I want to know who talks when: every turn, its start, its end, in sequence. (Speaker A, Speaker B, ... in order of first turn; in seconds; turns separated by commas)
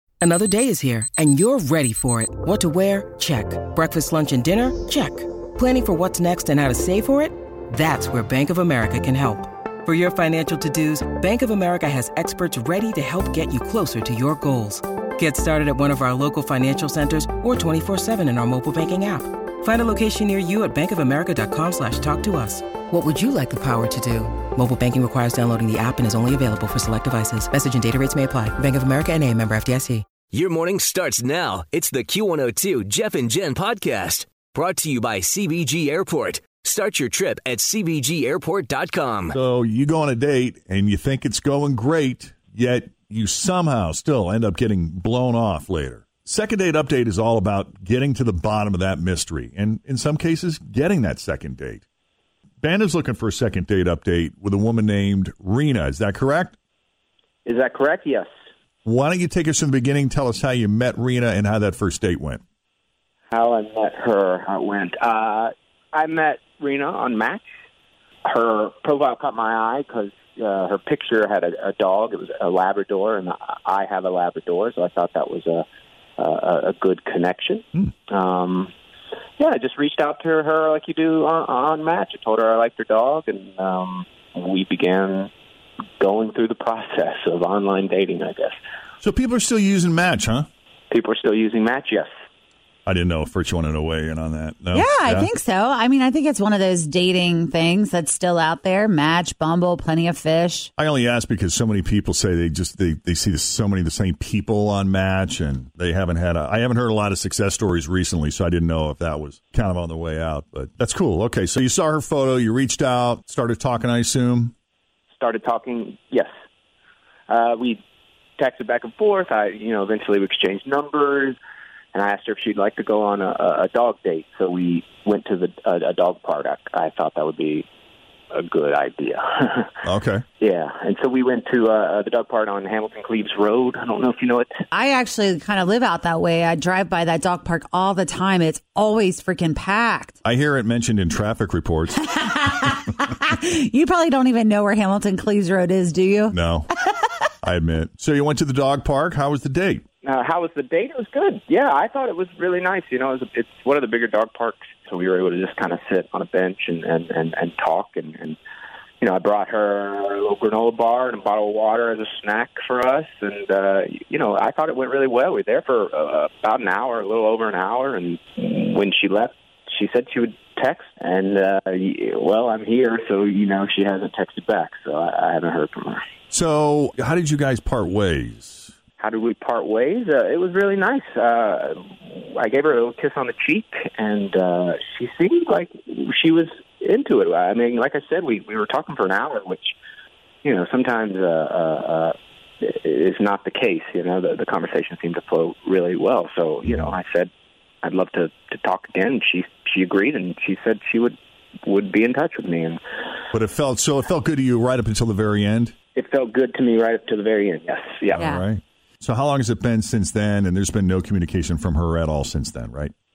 Speaker A: 0.2-30.1, Speaker B: 30.3-39.4, Speaker C: 39.3-51.9, Speaker C: 52.6-56.6, Speaker D: 57.5-58.3, Speaker C: 58.9-62.4, Speaker D: 63.3-67.5, Speaker D: 68.2-75.7, Speaker D: 76.2-78.7, Speaker D: 79.4-85.3, Speaker D: 86.0-88.6, Speaker C: 89.0-90.5, Speaker D: 90.9-92.1, Speaker C: 92.9-95.3, Speaker E: 94.7-100.7, Speaker C: 100.8-114.5, Speaker D: 115.1-116.3, Speaker D: 117.3-117.8, Speaker D: 118.4-121.4, Speaker D: 121.9-127.7, Speaker D: 128.3-129.8, Speaker C: 129.8-130.2, Speaker D: 130.4-134.5, Speaker E: 134.7-140.2, Speaker C: 140.2-142.0, Speaker E: 142.0-146.4, Speaker C: 146.3-146.7, Speaker C: 147.4-149.8, Speaker D: 150.0-158.4, Speaker D: 159.0-176.0, Speaker C: 176.3-178.8, Speaker D: 179.0-189.8, Speaker D: 190.4-197.3, Speaker C: 196.7-196.9, Speaker D: 197.8-202.8, Speaker C: 203.3-205.8, Speaker D: 205.9-208.2, Speaker C: 208.1-212.9, Speaker E: 208.2-208.4